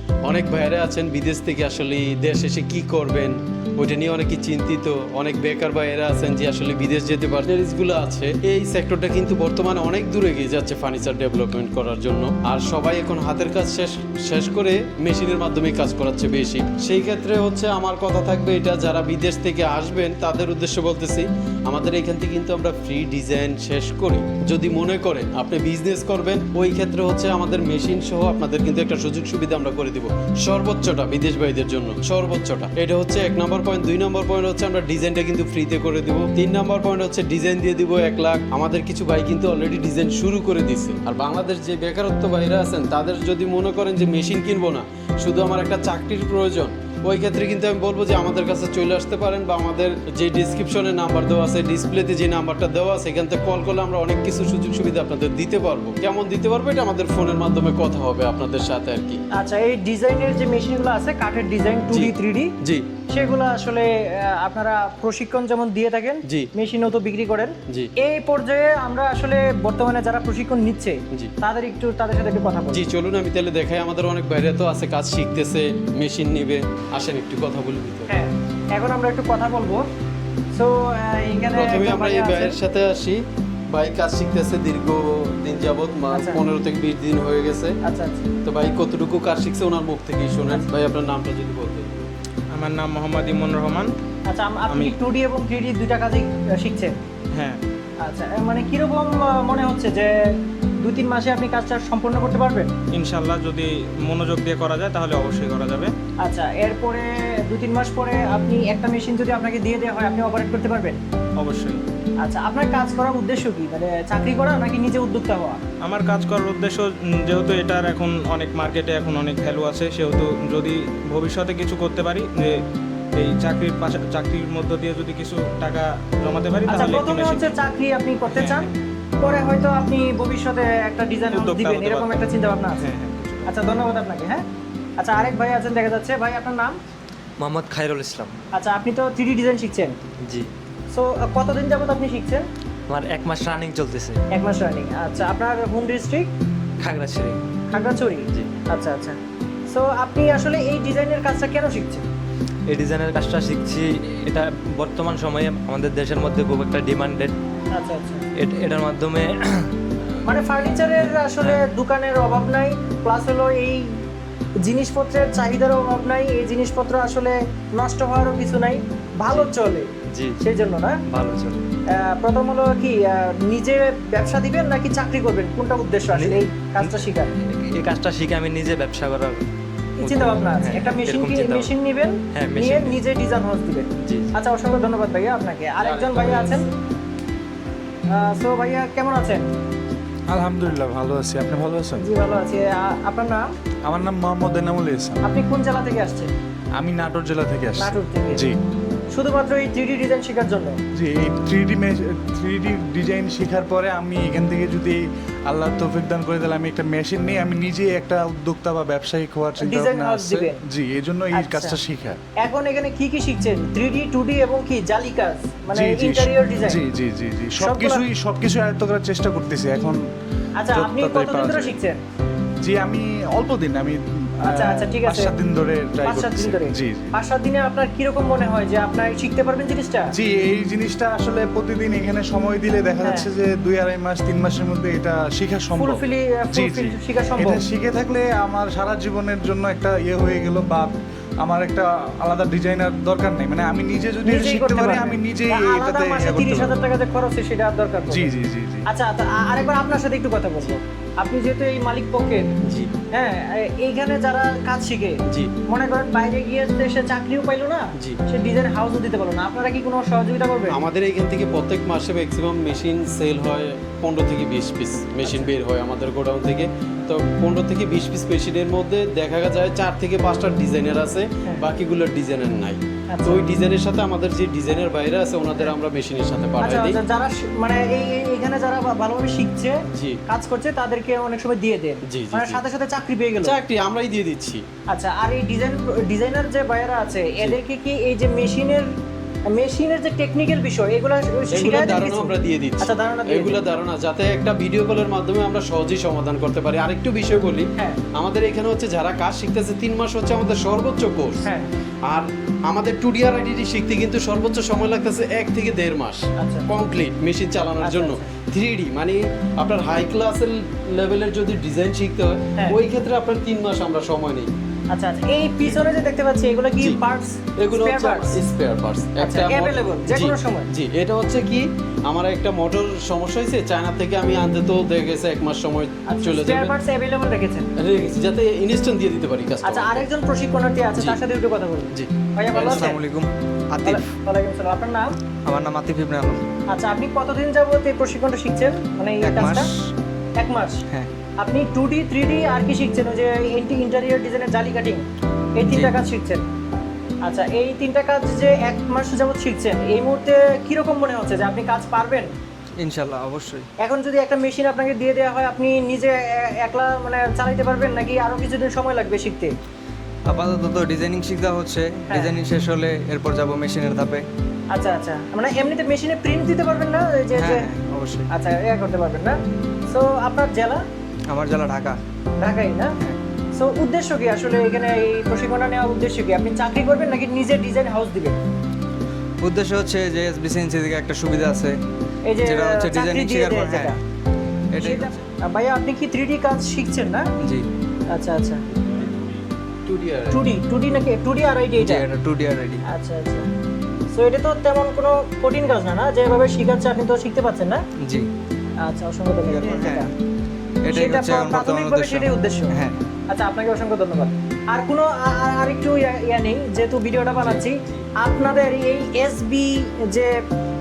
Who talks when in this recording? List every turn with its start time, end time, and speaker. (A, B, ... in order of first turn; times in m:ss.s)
0:00.2-0:59.2 A
0:59.4-1:02.5 B
1:01.9-1:02.8 A
1:03.1-1:12.8 B
1:12.7-1:18.1 A
1:18.1-1:19.8 B
1:20.5-1:22.6 B
1:21.5-1:23.2 A
1:23.7-1:27.7 A
1:26.1-1:26.4 B
1:27.8-1:28.3 B
1:28.4-1:32.1 A
1:32.5-1:33.9 C
1:34.3-1:36.9 B
1:34.7-1:35.0 C
1:37.3-1:37.6 C
1:38.0-1:40.1 B
1:40.8-1:42.7 B
1:42.9-1:45.9 C
1:46.2-1:51.0 B
1:51.4-1:51.8 C
1:52.2-1:55.6 B
1:55.8-2:02.6 C
2:03.1-2:07.5 C
2:06.7-2:08.7 B
2:08.3-2:08.7 C
2:09.2-2:12.9 B
2:11.3-2:12.1 C
2:12.7-2:13.5 C
2:13.4-2:14.4 B
2:15.0-2:16.8 B
2:17.4-2:18.3 D
2:18.5-2:20.0 B
2:20.2-2:20.5 D
2:20.9-2:22.5 B
2:22.9-2:24.2 D
2:24.3-2:26.3 B
2:26.8-2:27.4 D
2:27.7-2:29.2 B
2:29.7-2:32.0 B
2:32.7-2:37.4 D
2:37.7-2:38.3 B
2:38.4-2:39.7 D
2:40.2-2:43.9 B
2:41.0-2:41.6 D
2:44.6-2:49.9 B
2:50.1-2:50.4 D
2:50.4-2:51.0 B
2:51.1-2:51.6 D
2:51.9-2:57.3 B
2:56.1-2:59.4 D
3:00.0-3:01.7 D
3:00.0-3:06.6 B
3:02.3-3:03.0 D
3:04.0-3:04.3 D
3:05.8-3:06.7 A
3:08.1-3:09.4 B
3:10.3-3:12.1 E
3:12.0-3:13.4 B
3:13.8-3:15.2 E
3:15.2-3:16.3 B
3:16.8-3:18.6 E
3:17.8-3:18.4 B
3:19.1-3:20.8 B
3:20.9-3:32.2 E
3:29.6-3:30.6 B
3:31.3-3:31.8 B
3:32.4-3:36.8 B
3:35.7-3:40.0 E
3:37.6-3:38.0 B
3:40.6-3:42.0 B
3:40.7-3:41.8 E
3:42.6-3:47.1 E
3:44.4-3:45.3 B
3:46.0-3:50.1 B
3:50.1-3:56.0 E
3:53.0-3:53.3 B
3:55.7-3:57.6 B
3:56.5-4:00.9 E
4:01.4-4:06.9 E
4:04.2-4:08.3 B
4:08.1-4:08.9 E
4:08.9-4:12.5 B
4:12.6-4:12.9 A
4:13.1-4:20.8 B
4:20.7-4:37.0 A
4:25.2-4:25.5 B
4:33.1-4:33.5 B
4:36.6-4:39.8 B
4:39.9-4:40.2 A
4:40.3-4:43.6 B
4:42.0-4:42.6 A
4:43.4-4:44.6 A
4:44.9-4:48.9 B
4:49.5-4:53.6 B
4:51.5-5:01.5 A
5:02.1-5:14.5 A
5:06.4-5:06.6 B
5:07.8-5:08.2 B
5:14.9-5:18.4 B
5:17.6-5:26.7 A
5:19.2-5:20.7 B
5:26.1-5:27.7 B
5:27.8-5:30.1 A
5:29.6-5:33.0 B
5:32.0-5:32.9 A
5:32.6-5:34.1 F
5:33.8-5:35.1 B
5:35.4-5:36.4 F
5:36.7-5:39.7 B
5:39.2-5:39.9 F
5:40.4-5:40.8 B
5:41.4-5:45.0 B
5:45.6-5:46.4 B
5:45.7-5:46.0 F
5:47.2-5:52.4 B
5:52.8-5:53.7 F
5:53.8-5:59.5 B
6:00.3-6:04.2 F
6:02.1-6:02.4 B
6:04.7-6:07.7 B
6:07.3-6:08.3 F
6:08.3-6:09.4 B
6:09.9-6:10.8 B
6:11.3-6:12.0 F
6:12.4-6:12.9 B
6:13.6-6:18.4 B
6:19.4-6:21.8 F
6:22.2-6:24.0 B
6:22.4-6:24.0 F
6:24.7-6:25.2 F
6:24.8-6:27.3 B
6:27.4-6:27.7 F
6:28.1-6:28.6 B
6:29.8-6:30.4 A
6:30.3-6:32.0 B
6:31.8-6:32.8 F
6:32.9-6:33.5 B
6:34.1-6:37.8 B
6:38.0-6:38.3 F
6:38.8-6:40.1 B
6:39.5-6:40.1 F
6:40.8-6:43.0 F
6:40.9-6:42.7 B
6:43.3-6:50.3 B
6:47.4-6:48.0 F